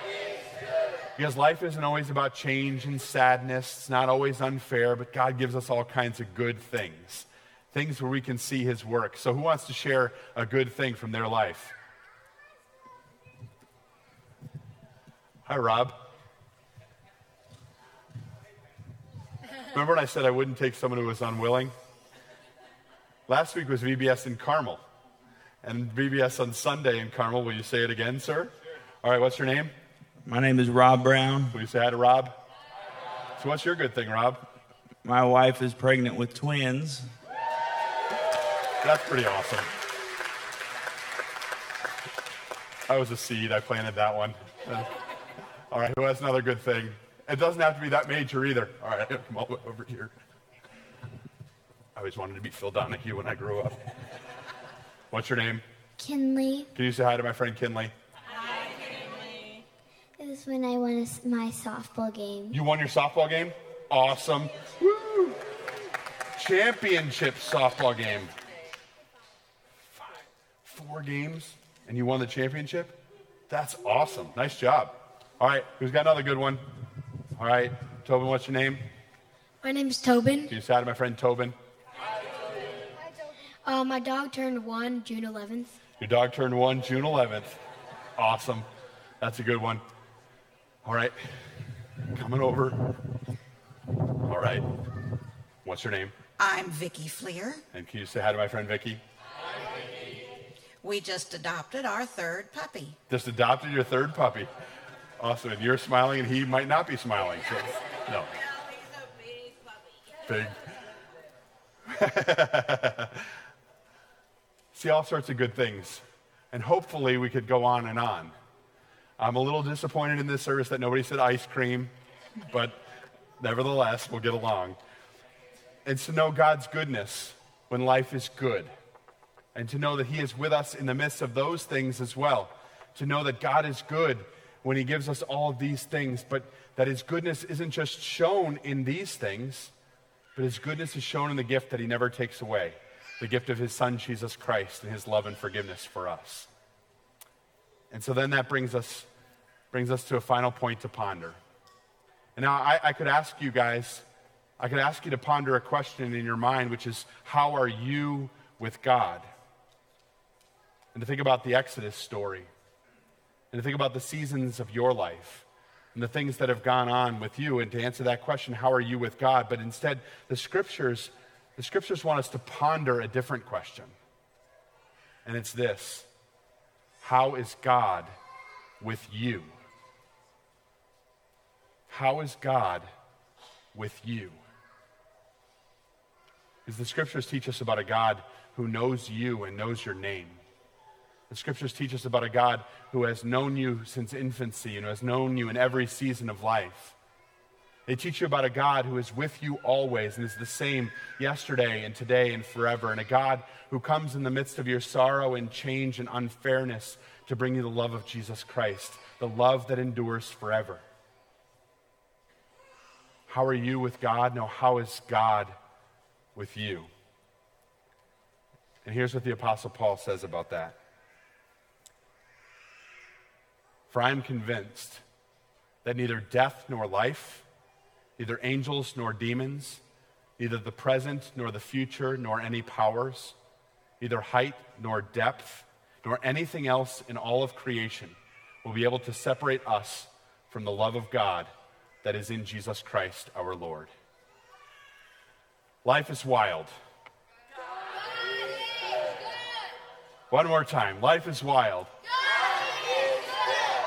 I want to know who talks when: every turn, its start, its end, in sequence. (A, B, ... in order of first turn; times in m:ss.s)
0:01.1-0:11.7 A
0:15.4-0:16.0 A
0:19.7-0:21.7 A
0:23.3-0:24.8 A
0:25.6-0:29.7 A
0:30.2-0:31.5 B
0:31.5-0:32.4 A
0:33.4-0:34.5 A
0:35.0-0:37.1 B
0:38.8-0:39.7 A
0:42.9-0:45.0 A
0:45.7-0:50.1 A
0:51.9-0:54.0 A
0:55.1-0:55.6 A
0:56.0-0:56.7 C
0:56.7-0:57.9 A
1:00.2-1:02.6 C
1:02.5-1:05.4 A
1:06.3-1:08.3 A
1:10.0-1:13.0 A
1:13.5-1:16.6 A
1:17.4-1:18.8 A
1:19.6-1:20.5 D
1:20.5-1:21.6 A
1:23.6-1:25.7 D
1:26.0-1:27.6 A
1:28.2-1:28.7 A
1:29.2-1:29.8 A
1:30.8-1:31.4 A
1:32.1-1:33.0 A
1:34.2-1:34.7 A
1:35.6-1:36.1 A
1:36.4-1:37.6 E
1:37.7-1:39.0 A
1:40.8-1:43.0 E
1:43.1-1:44.5 A
1:45.2-1:48.3 A
1:50.2-1:50.7 A
1:51.9-1:53.3 A
1:54.7-1:58.4 A
1:59.2-2:01.9 A
2:02.5-2:02.8 A
2:03.4-2:04.8 A
2:05.8-2:08.7 A
2:09.5-2:19.7 A
2:20.3-2:26.5 A
2:27.9-2:29.1 A
2:29.7-2:31.4 A
2:32.4-2:34.0 A
2:34.6-2:39.3 A
2:40.9-2:42.5 A
2:43.5-2:53.9 A
2:55.2-2:56.1 A
2:57.0-2:58.1 A
2:58.8-2:59.5 A
3:01.9-3:02.9 A
3:03.7-3:04.4 A
3:06.6-3:10.4 A
3:11.3-3:17.0 A
3:17.9-3:30.8 A
3:33.3-3:35.6 A
3:36.3-3:36.9 A
3:38.8-3:40.8 A
3:43.9-3:45.0 A
3:45.8-3:47.4 A
3:48.2-3:49.8 A
3:50.4-3:53.4 A
3:54.0-4:01.5 A
4:02.0-4:03.9 A
4:05.8-4:06.7 A
4:10.3-4:11.9 A